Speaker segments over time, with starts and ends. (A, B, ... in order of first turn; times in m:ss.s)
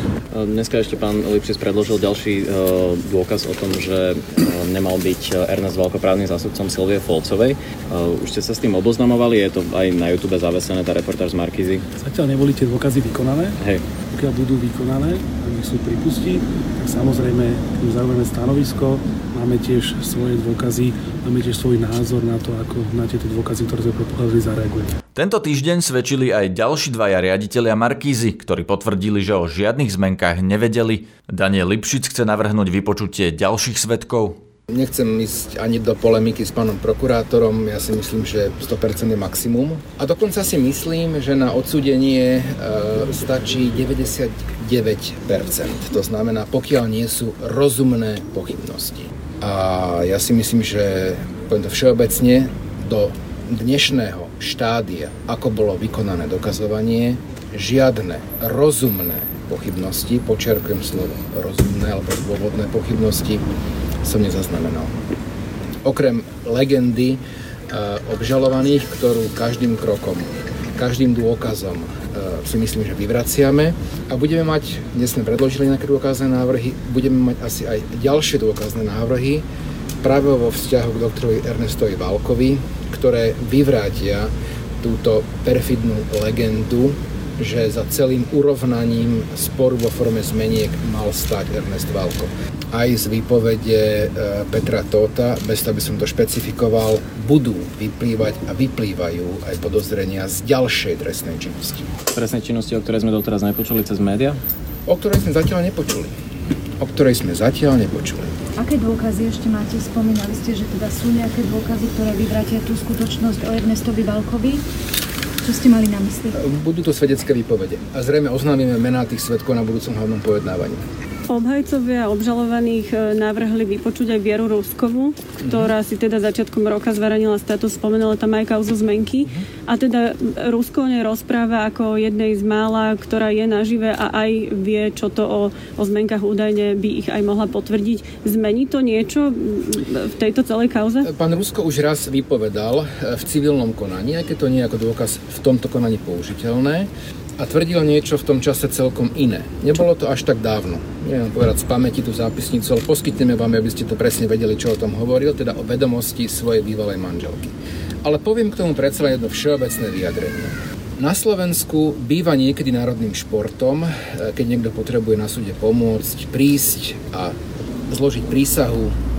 0:00.3-0:11.8 A
0:12.0-0:13.6 B
0:14.1-0:24.9 B
0:25.1-0:34.4 C
0:34.7-1:03.4 D
1:04.0-1:04.9 D
1:05.8-1:19.4 D
1:20.0-1:41.8 D
1:42.1-1:44.4 A
1:44.8-1:46.1 D
1:46.8-1:48.3 D
1:48.6-1:54.6 E
1:55.5-1:56.3 E
1:56.4-2:00.8 D
2:01.3-2:21.1 F
2:05.4-2:05.7 D
2:21.0-2:47.4 D
2:47.9-2:48.9 D